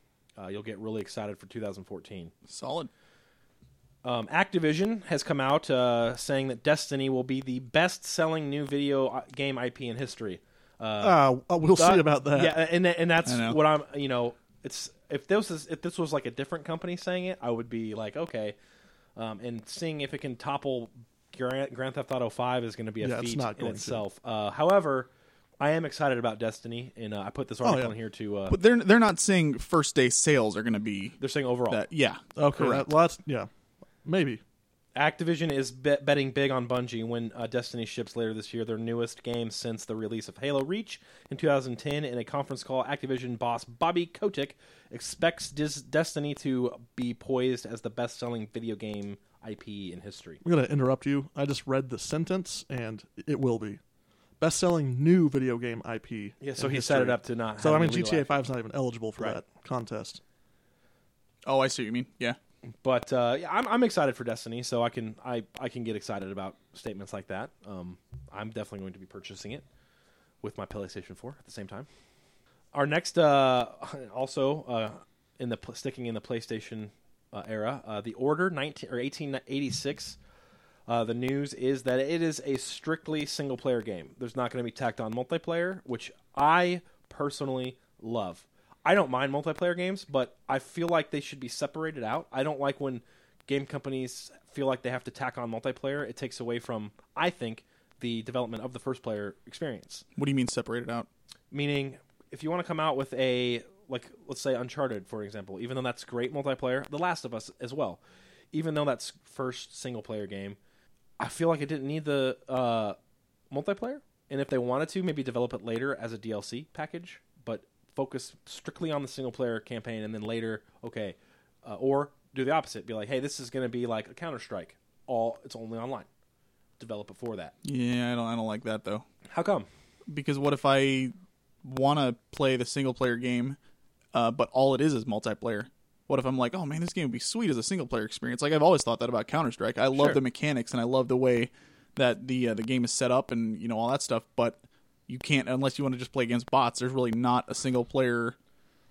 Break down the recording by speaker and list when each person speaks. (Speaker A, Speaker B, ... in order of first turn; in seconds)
Speaker A: 0.4-2.3, 4.0-11.2, 11.8-18.6, 19.2-25.1, 25.6-28.6, 31.2-31.8, 35.0-50.4, 56.4-58.4, 62.8-69.7, 70.4-71.9, 72.7-80.2, 80.9-100.0, 101.5-108.0, 108.5-110.6, 111.2-113.0, 113.5-126.1, 126.8-127.5, 129.3-129.7, 139.9-140.2
Speaker B: 2.5-2.9, 13.3-13.6, 28.5-31.2, 31.7-32.9, 61.5-62.4, 100.2-101.1, 127.6-129.1, 130.1-131.1, 131.6-133.6, 134.1-148.4
Speaker C: 11.0-12.6, 23.0-24.0, 27.6-27.9, 32.4-33.5, 34.0-34.4, 50.4-53.8, 54.4-60.2